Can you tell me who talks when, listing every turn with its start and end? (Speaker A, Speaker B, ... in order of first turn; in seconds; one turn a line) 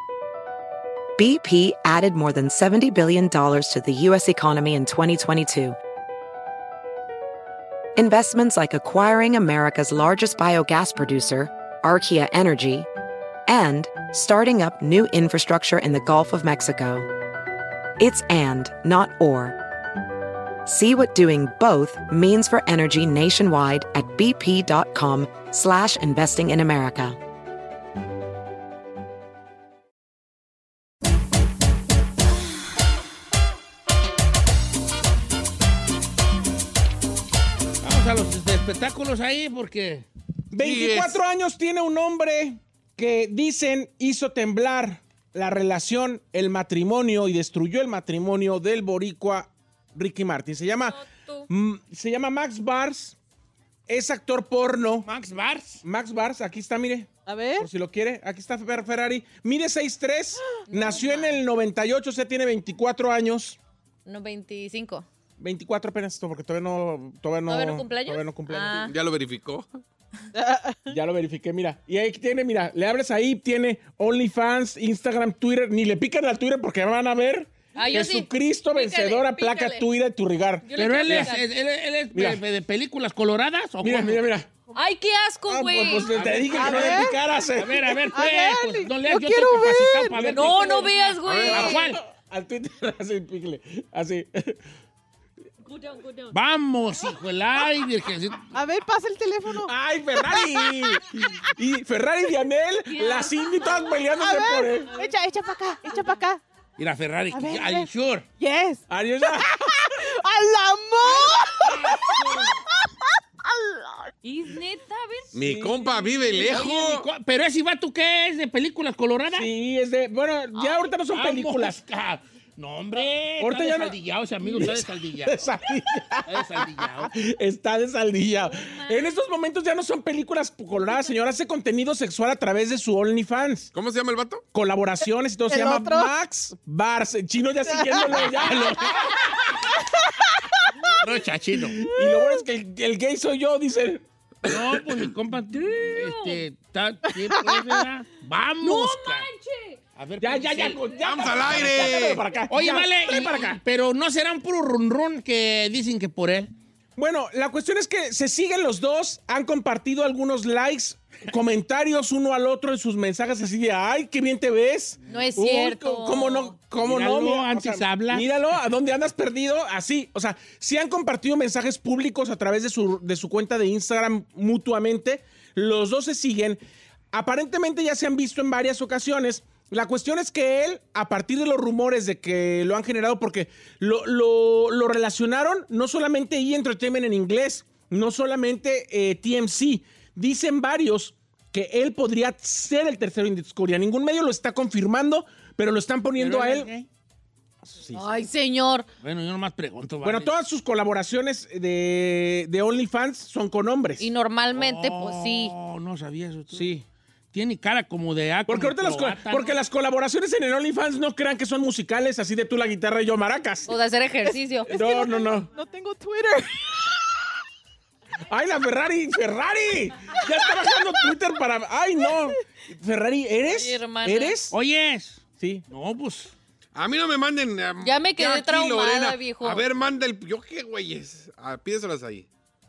Speaker A: 1.2-5.8
Speaker A: 8.0-12.9
Speaker A: 13.5-17.1
Speaker A: 18.0-19.6
Speaker A: 20.6-27.2
Speaker B: 37.8-40.0
Speaker C: 40.5-51.0
Speaker D: 40.6-41.2
Speaker E: 50.9-51.5
Speaker C: 51.5-53.1
Speaker C: 53.9-55.1
Speaker B: 55.0-55.8
Speaker C: 55.8-63.6
Speaker F: 57.2-57.7
Speaker E: 60.7-61.4
Speaker E: 64.0-65.0
Speaker C: 65.4-68.9
Speaker E: 67.5-68.9
Speaker D: 68.8-69.8
Speaker F: 70.4-70.8
Speaker C: 70.9-81.3
Speaker E: 77.8-79.9
Speaker E: 80.7-81.4
Speaker B: 80.8-84.2
Speaker C: 82.1-82.4
Speaker C: 83.8-84.5
Speaker E: 84.7-86.3
Speaker C: 85.5-87.8
Speaker B: 86.1-92.0
Speaker F: 86.5-87.2
Speaker F: 88.1-90.3
Speaker C: 90.2-90.6
Speaker E: 90.2-91.9
Speaker D: 91.2-91.7
Speaker C: 91.5-94.6
Speaker B: 96.3-98.5
Speaker F: 98.5-100.7
Speaker C: 99.6-105.0
Speaker E: 103.1-103.9
Speaker F: 104.1-106.4
Speaker B: 106.8-108.2
Speaker F: 107.3-112.1
Speaker C: 108.9-109.7
Speaker F: 113.5-114.1
Speaker E: 114.2-115.3
Speaker D: 115.3-117.1
Speaker C: 115.4-115.8
Speaker B: 116.4-119.5
Speaker C: 119.3-121.8
Speaker B: 120.5-125.5
Speaker C: 123.4-133.7
Speaker B: 126.2-127.1
Speaker E: 128.5-129.2
Speaker D: 133.7-134.4
Speaker C: 134.5-138.9
Speaker F: 135.5-136.1
Speaker F: 137.7-138.1
Speaker B: 138.1-139.3
Speaker B: 141.0-141.8
Speaker C: 141.7-144.0
Speaker B: 144.4-149.3
Speaker B: 149.9-150.8
Speaker C: 150.2-153.6
Speaker D: 151.0-152.2
Speaker B: 151.5-151.8
Speaker B: 152.5-156.5
Speaker C: 157.0-176.6
Speaker E: 165.1-166.5
Speaker B: 166.8-168.3
Speaker C: 177.1-196.7
Speaker B: 196.2-196.9
Speaker C: 197.6-198.0
Speaker E: 197.9-198.9
Speaker B: 199.0-200.3
Speaker C: 200.0-204.1
Speaker E: 204.0-205.5
Speaker B: 204.5-206.7
Speaker C: 206.5-206.8
Speaker B: 207.3-209.6
Speaker C: 208.5-213.7
Speaker E: 213.7-214.8
Speaker F: 214.2-216.7
Speaker C: 214.7-215.5
Speaker C: 218.3-224.5
Speaker E: 223.5-224.3
Speaker B: 224.5-226.3
Speaker C: 225.4-225.6
Speaker D: 226.7-232.3
Speaker E: 227.8-229.6